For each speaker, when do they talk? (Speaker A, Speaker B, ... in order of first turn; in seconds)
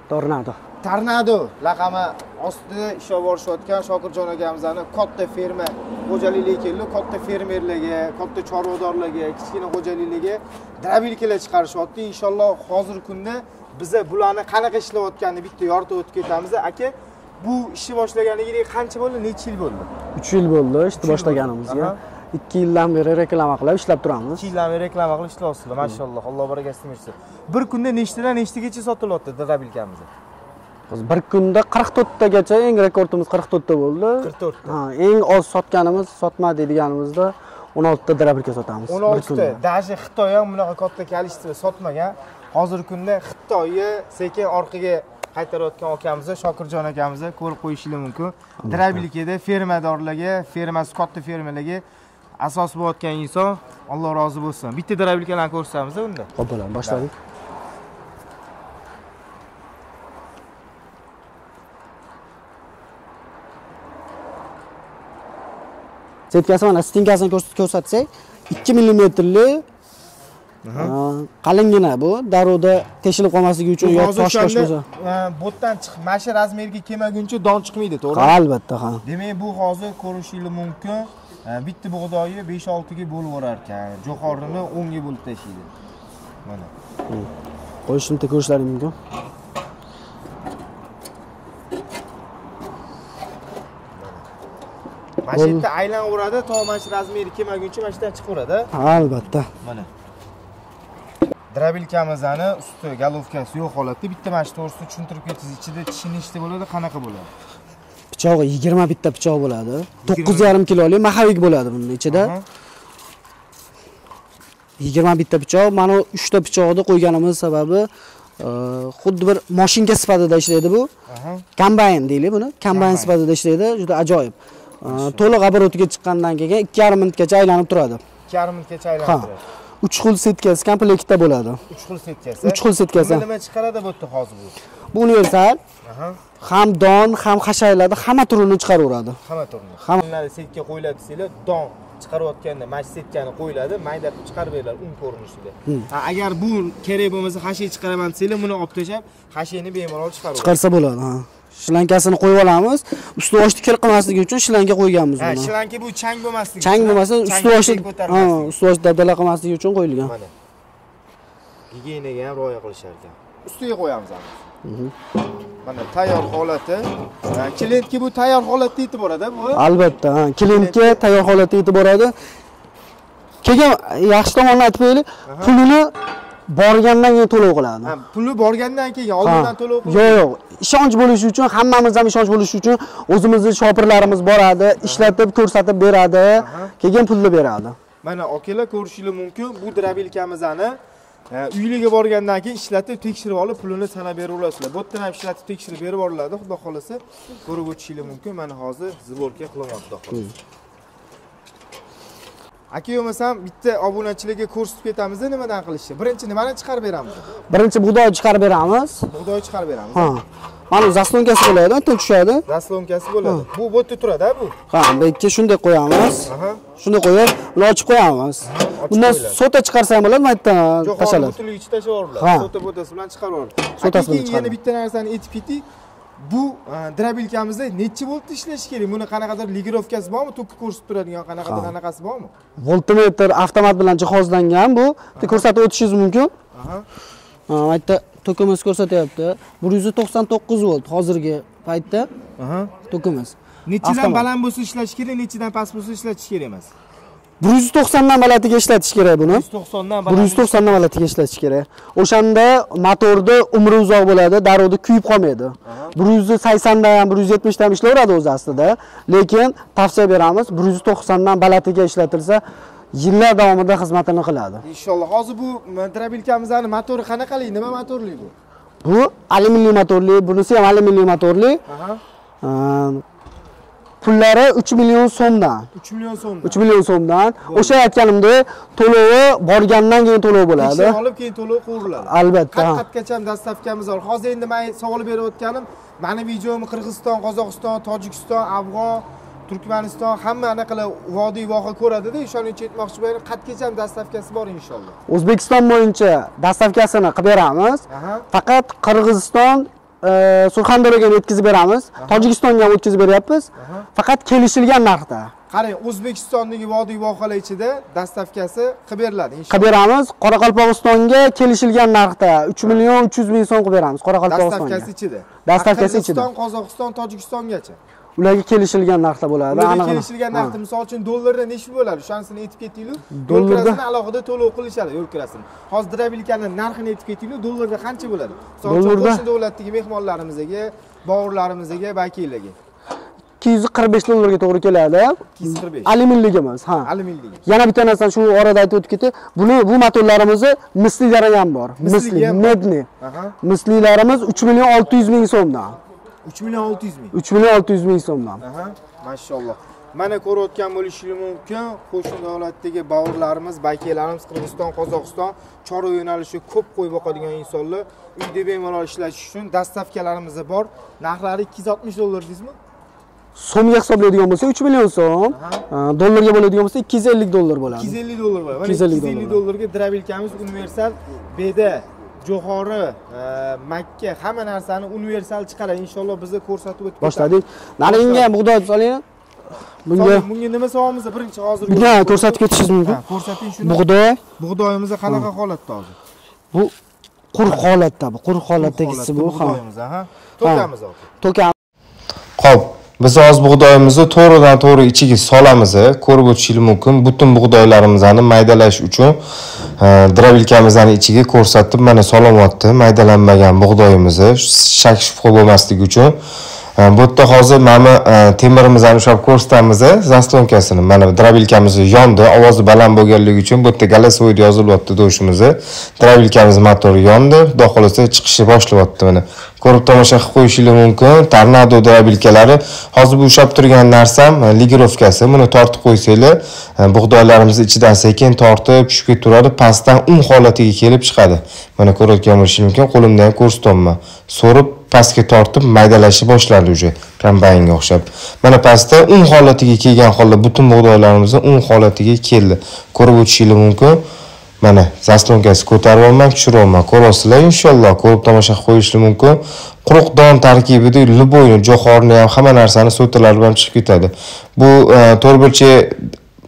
Speaker A: 0.1-0.6, 20.2-24.4, 30.9-39.6, 48.7-49.0, 56.4-57.1, 66.3-69.7, 70.8-74.8, 78.1-79.0, 87.9-89.0, 95.3-95.7, 98.7-99.5, 108.1-112.3, 114.8-120.9, 121.6-128.0, 129.0-129.3, 129.8-131.6, 132.4-133.3, 134.9-135.6, 136.4-139.2, 150.4-155.5, 156.6-160.1, 164.6-164.9, 169.6-172.2, 173.4-175.9, 176.5-177.9, 179.2-187.8, 207.5-209.1, 209.9-212.4, 214.7-221.4, 222.2-222.5, 223.8-224.6, 231.4-231.7, 232.6-236.3, 237.5-242.1, 242.9-244.3, 247.4-249.4, 250.1-264.6, 268.8-271.6, 272.4-273.0, 274.0-275.7, 276.4-281.0, 282.0-282.9, 295.1-305.3, 309.5-314.9, 315.4-316.3, 318.2-320.6, 323.1-323.8, 328.6-329.2, 333.4-336.9, 337.5-342.9, 343.4-345.8, 347.1-348.4, 363.4-367.9, 368.6-369.4, 377.0-379.0, 379.9-380.3, 381.7-383.0, 383.6-384.2, 387.3-389.6, 390.4-390.7, 391.2-391.5
Speaker B: 0.8-19.9, 21.0-22.0, 24.4-30.1, 34.2-34.8, 38.9-51.8, 52.4-56.3, 56.8-57.1, 70.6-71.0, 73.8-78.4, 79.0-85.7, 86.5-86.7, 94.0-94.2, 95.2-98.8, 99.6-99.9, 101.5-107.3, 110.0-110.5, 112.1-112.5, 121.1-121.5, 122.7-123.1, 124.8-125.3, 128.3-129.4, 131.7-134.6, 135.8-136.2, 139.2-150.6, 155.2-158.6, 160.0-160.3, 161.7-164.4, 165.6-169.6, 170.5-171.0, 175.2-175.6, 177.8-180.2, 184.8-185.2, 186.4-186.7, 188.0-190.8, 191.3-200.3, 202.7-207.3, 209.1-210.1, 212.5-214.6, 216.3-216.6, 218.4-219.4, 220.8-225.7, 226.2-232.3, 235.2-235.4, 236.5-236.9, 242.4-242.7, 243.7-246.7, 249.3-250.9, 255.7-256.0, 264.6-268.3, 271.7-272.0, 275.8-276.6, 277.4-277.8, 280.6-295.0, 297.9-298.3, 302.0-302.3, 303.6-303.9, 305.5-309.8, 314.3-317.8, 319.5-332.6, 335.4-335.9, 336.8-337.4, 341.8-343.4, 346.2-347.2, 348.4-362.6, 365.3-365.7, 367.7-378.3, 379.9-383.8, 384.4-385.9, 388.6-391.1
Speaker C: 392.4-399.2, 399.8-406.2, 406.8-444.0, 444.6-456.1